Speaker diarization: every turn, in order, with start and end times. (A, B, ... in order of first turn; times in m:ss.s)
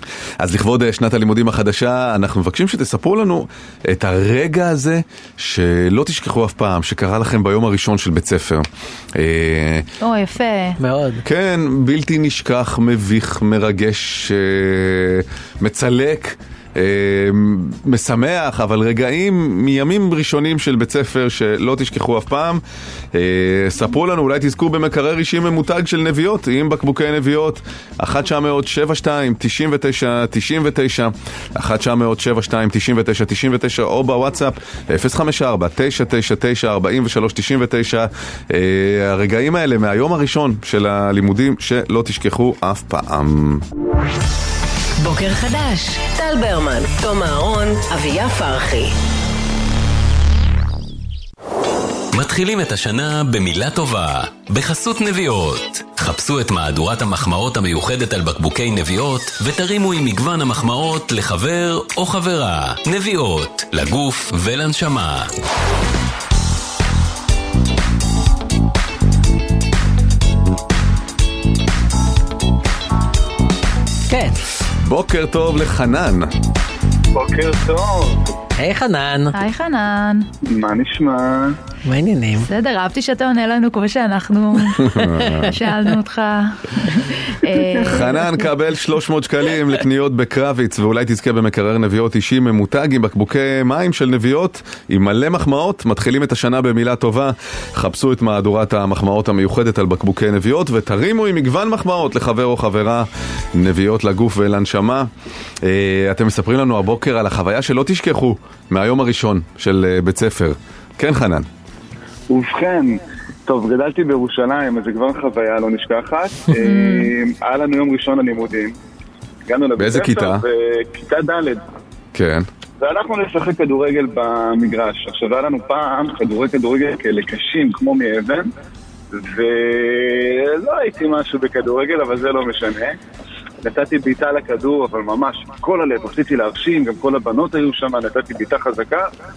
0:00.4-0:09.9 A
0:10.0-0:10.8 B
0:10.8-0:11.2 C
0:11.2-0:22.6 A
0:23.1-0:43.6 A
0:45.0-0:48.9 D
0:52.1-1:05.3 E
1:14.1-1:14.4 C
1:14.8-1:16.3 A
1:17.1-1:18.2 F
1:18.6-1:19.4 C
1:19.3-1:20.3 B
1:20.5-1:21.6 F
1:21.9-1:22.5 C
1:22.4-1:24.9 B
1:24.8-1:25.6 A
1:25.5-1:28.3 B
1:27.8-1:45.1 A
1:45.6-1:51.5 A
1:52.3-1:58.8 F
1:56.6-1:57.1 B
1:59.5-2:01.6 F
1:59.8-2:00.4 A
2:02.1-2:02.5 A
2:02.8-2:08.5 F
2:09.1-2:13.0 F
2:13.6-2:19.1 F